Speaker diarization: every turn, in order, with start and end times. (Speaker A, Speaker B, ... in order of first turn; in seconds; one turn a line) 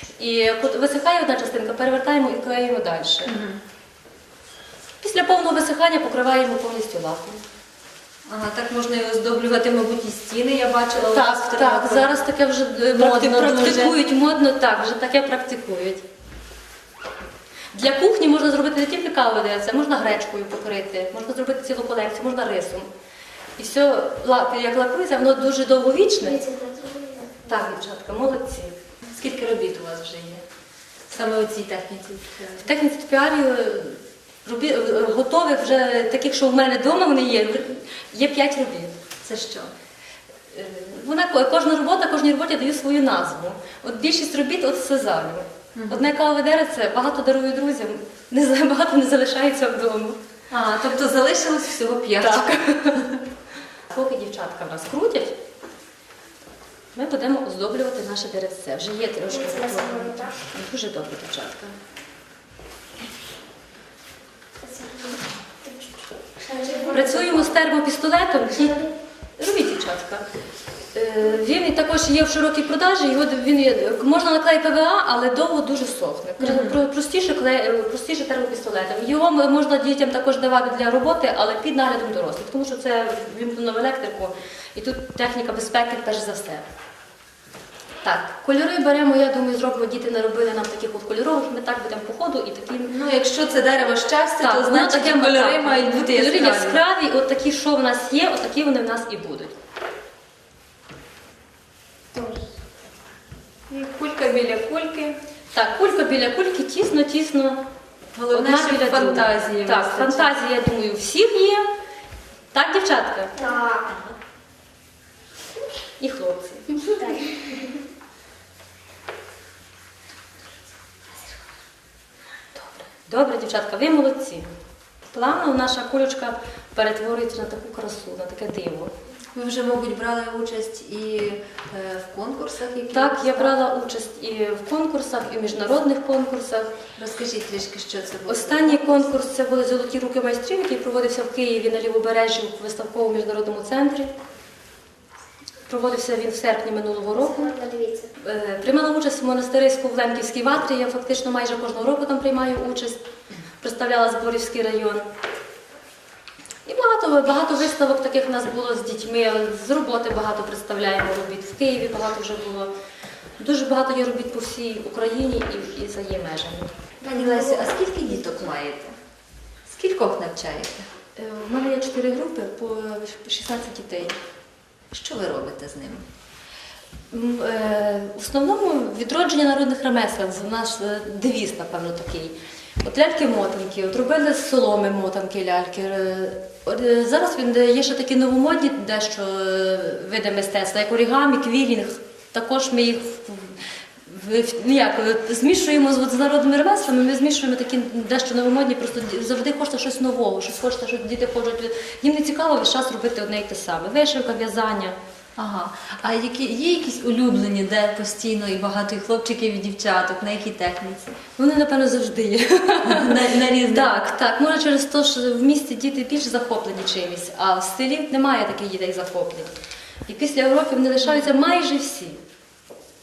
Speaker A: 0.2-3.3
Speaker B: 3.2-3.6
Speaker A: 5.0-7.4
Speaker B: 8.3-12.1
Speaker A: 11.1-16.0
Speaker B: 12.9-14.0
Speaker A: 17.7-22.9
Speaker A: 23.6-26.4
Speaker C: 26.2-27.4
Speaker A: 27.4-28.7
Speaker B: 29.0-30.4
Speaker B: 31.1-32.7
Speaker A: 32.6-38.9
Speaker B: 39.2-39.7
Speaker A: 40.5-50.2
Speaker B: 45.7-46.1
Speaker B: 50.5-52.5
Speaker A: 52.2-53.2
Speaker A: 53.9-55.4
Speaker A: 56.9-61.8
Speaker C: 59.3-60.3
Speaker C: 64.6-67.5
Speaker A: 66.9-68.8
Speaker A: 69.4-70.2
Speaker A: 70.9-86.6
Speaker B: 76.4-76.8
Speaker A: 88.0-93.0
Speaker B: 92.9-96.8
Speaker A: 94.4-99.5
Speaker C: 102.1-102.4
Speaker B: 103.7-105.2
Speaker A: 105.5-107.6
Speaker B: 108.1-110.3
Speaker A: 108.3-111.7
Speaker A: 112.5-113.3
Speaker C: 113.4-113.9
Speaker A: 116.0-116.8
Speaker C: 117.0-117.5
Speaker A: 122.5-124.5
Speaker A: 125.1-128.9
Speaker B: 129.3-133.5
Speaker A: 132.9-136.7
Speaker B: 136.9-139.1
Speaker A: 138.2-144.1
Speaker A: 145.7-147.5
Speaker C: 147.2-148.1
Speaker A: 148.2-153.0
Speaker A: 153.6-155.1
Speaker A: 156.7-162.7
Speaker A: 163.4-166.7
Speaker C: 167.0-168.5
Speaker B: 167.1-168.9
Speaker B: 169.7-170.9
Speaker A: 171.2-174.2
Speaker B: 174.9-176.1
Speaker A: 177.1-205.0
Speaker B: 205.4-211.1
Speaker A: 211.4-219.5
Speaker B: 212.8-214.1
Speaker A: 220.1-222.2